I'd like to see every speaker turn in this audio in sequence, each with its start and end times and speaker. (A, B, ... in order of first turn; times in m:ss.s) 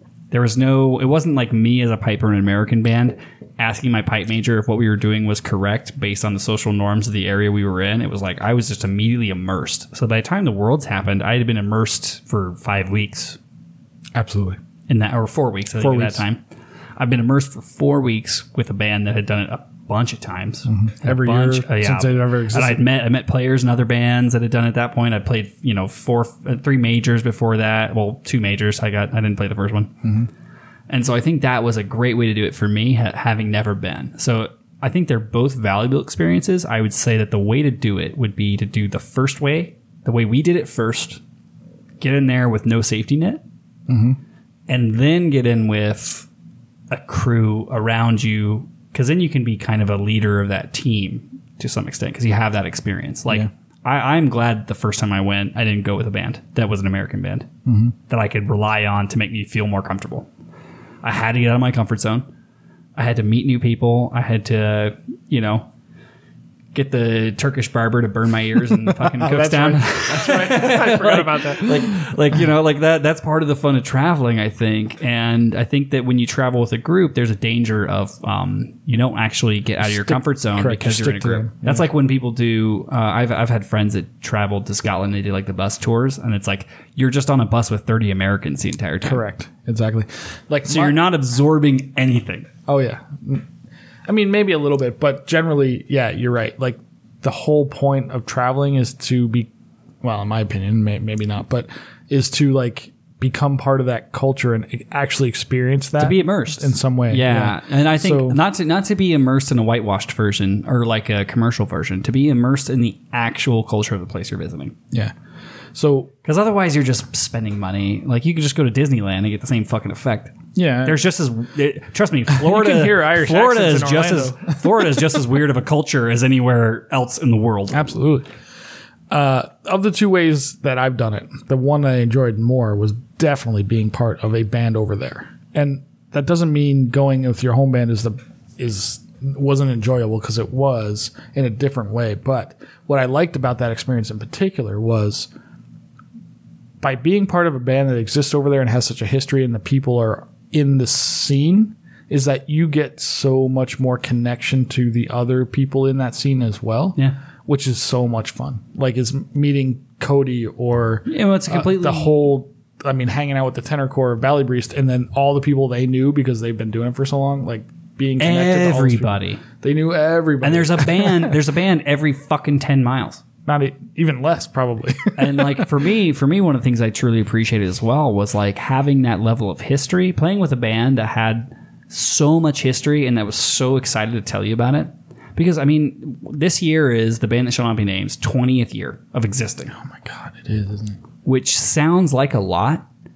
0:00.3-0:13.4 A
0:14.1-0:14.6 B
0:14.9-0:16.4 A
0:15.8-0:16.2 B
0:17.0-0:30.0 A
0:20.7-0:22.8 B
0:30.0-0:30.3 B
0:30.9-0:41.2 A
0:42.0-0:43.4 A
0:43.9-0:44.2 B
0:44.7-0:46.3 A
0:46.9-0:57.5 A
0:57.6-0:57.9 B
0:58.1-1:00.3 A
1:01.0-1:02.3 A
1:03.0-1:05.7 A
1:06.7-1:29.2 A
1:08.9-1:12.1 B
1:19.8-1:21.8 B
1:29.0-1:31.0 B
1:30.6-1:32.5 A
1:32.7-1:33.4 B
1:34.1-1:39.5 B
1:40.0-1:48.4 B
1:46.0-1:54.8 A
1:55.7-1:56.1 B
1:56.2-2:07.9 A
2:00.5-2:01.0 B
2:02.3-2:04.6 B
2:07.7-2:08.3 B
2:09.1-2:25.3 B
2:26.8-2:51.4 B
2:41.1-2:42.2 A
2:48.2-2:49.4 A
2:50.4-2:53.2 A
2:53.4-2:55.7 B
2:55.2-3:09.7 A
3:09.7-3:11.0 B
3:11.2-3:12.8 A